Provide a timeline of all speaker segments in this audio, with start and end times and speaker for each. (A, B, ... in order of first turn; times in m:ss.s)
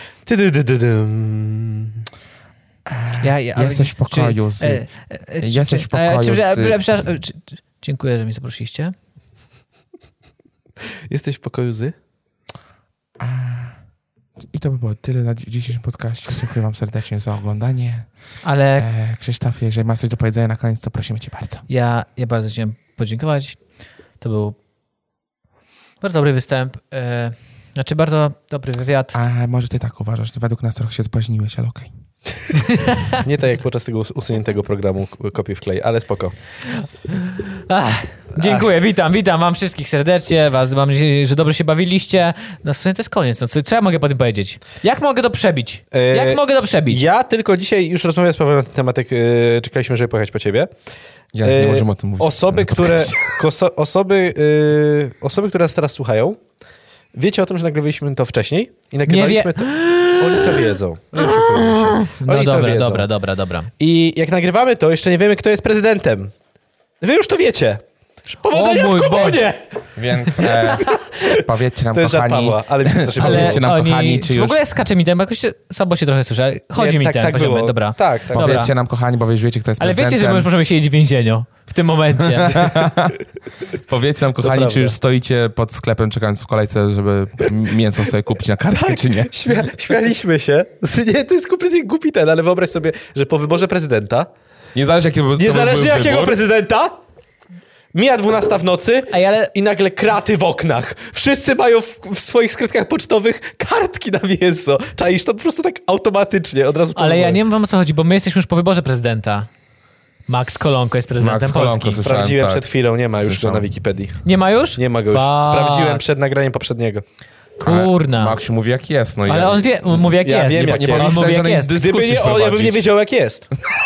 0:00.2-0:02.0 A
0:02.9-0:04.9 B
0:03.2-0:08.9 C
0:05.4-0:06.8 B
0:10.9-0:11.9 A
0:13.2-0:13.7 B
0:14.5-0:18.1 B
0:18.4-0:18.9 C
0:18.8-0:21.6 B
0:21.7-0:23.6 C
0:24.2-0:24.6 C
0:26.0-0:29.2 C
0:29.1-0:31.9 B
0:32.6-0:33.2 C
0:33.2-0:36.3 A
0:36.8-0:47.0 C
0:38.4-0:38.7 A
0:45.9-0:50.7 A
0:51.3-0:53.3 B
0:51.4-0:56.4 A
0:57.1-1:03.1 A
0:59.1-1:03.7 C
1:03.8-1:06.3 A
1:07.0-1:09.6 A
1:08.5-1:09.4 C
1:09.9-1:14.6 B
1:11.9-1:13.6 A
1:13.2-1:18.7 C
1:16.7-1:18.6 A
1:18.3-1:20.5 B
1:19.8-1:22.6 C
1:22.4-1:23.2 B
1:23.9-1:29.3 B
1:24.4-1:25.0 A
1:28.7-1:34.3 A
1:34.7-1:36.4 B
1:35.4-1:37.0 A
1:37.9-1:47.4 A
1:39.1-1:39.5 C
1:46.9-1:49.5 C
1:50.3-1:52.0 C
1:51.2-1:53.6 B
1:52.0-1:54.2 A
1:54.2-1:56.0 C
1:54.8-1:57.0 A
1:57.6-1:58.4 C
1:57.6-2:02.9 B
1:59.3-2:01.7 C
2:00.2-2:03.5 A